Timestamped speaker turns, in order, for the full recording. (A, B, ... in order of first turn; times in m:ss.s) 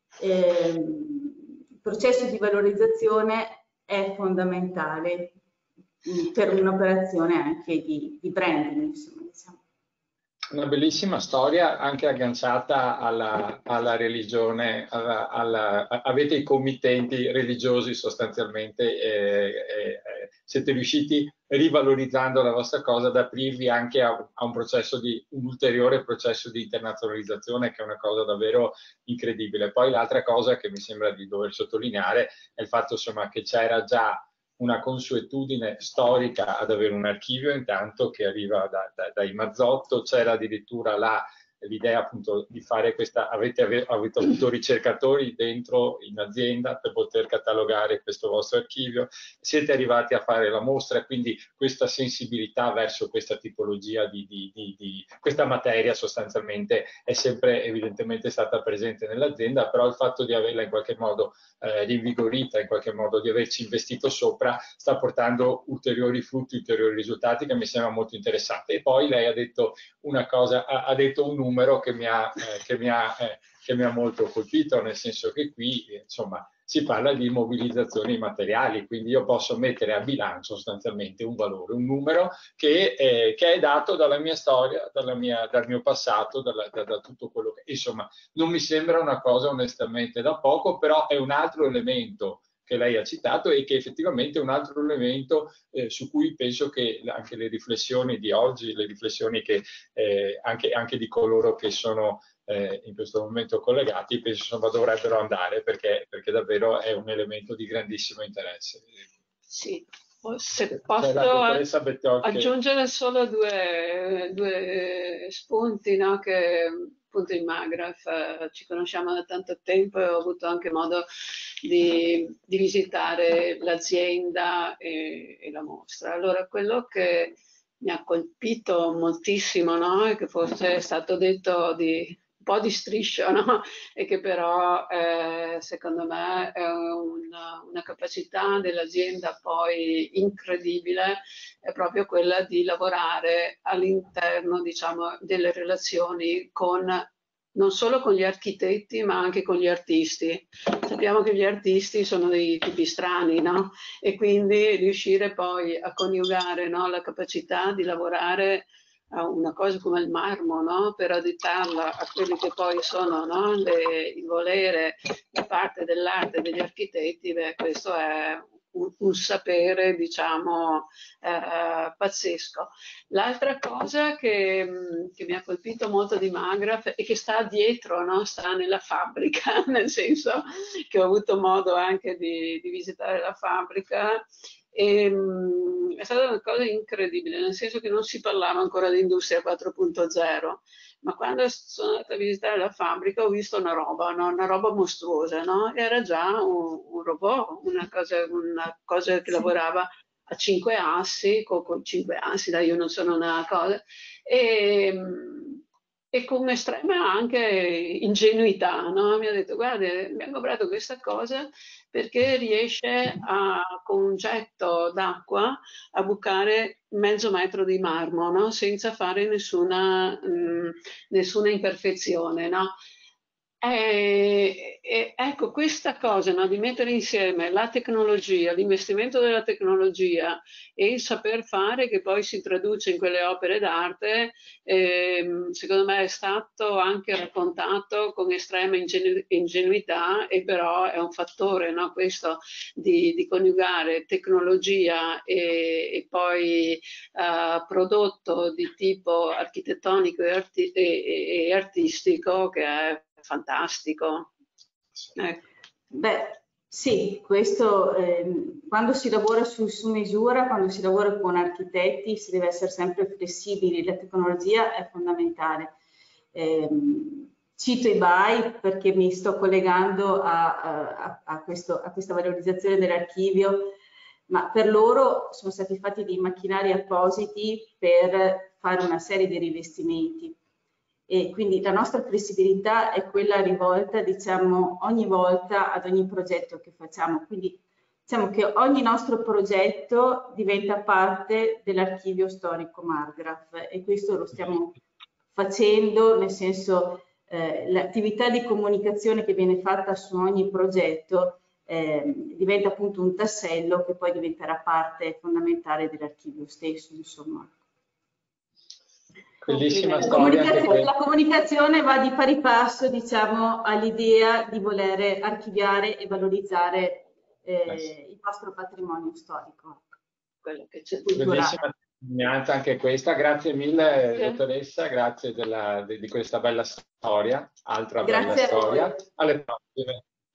0:00.2-0:05.4 A
0:06.0-0:09.6 A
0:10.5-1:49.0 B
1:49.5-1:51.6 C
1:50.9-1:52.5 B
1:52.2-2:01.0 C
2:01.6-2:27.0 C
2:27.5-3:25.6 C
3:26.1-3:42.7 C
3:43.6-4:14.3 C
4:15.2-4:15.4 C
4:15.9-4:25.7 A
4:26.3-4:33.8 A
4:34.3-4:40.4 A
4:41.1-4:54.8 A
4:55.3-5:07.5 A
5:09.4-5:10.9 B
5:09.4-5:10.7 C
5:10.0-5:19.9 A
5:20.4-5:21.1 C
5:21.0-5:21.6 A
5:21.2-5:30.0 B
5:24.1-5:24.4 C
5:28.0-5:29.0 A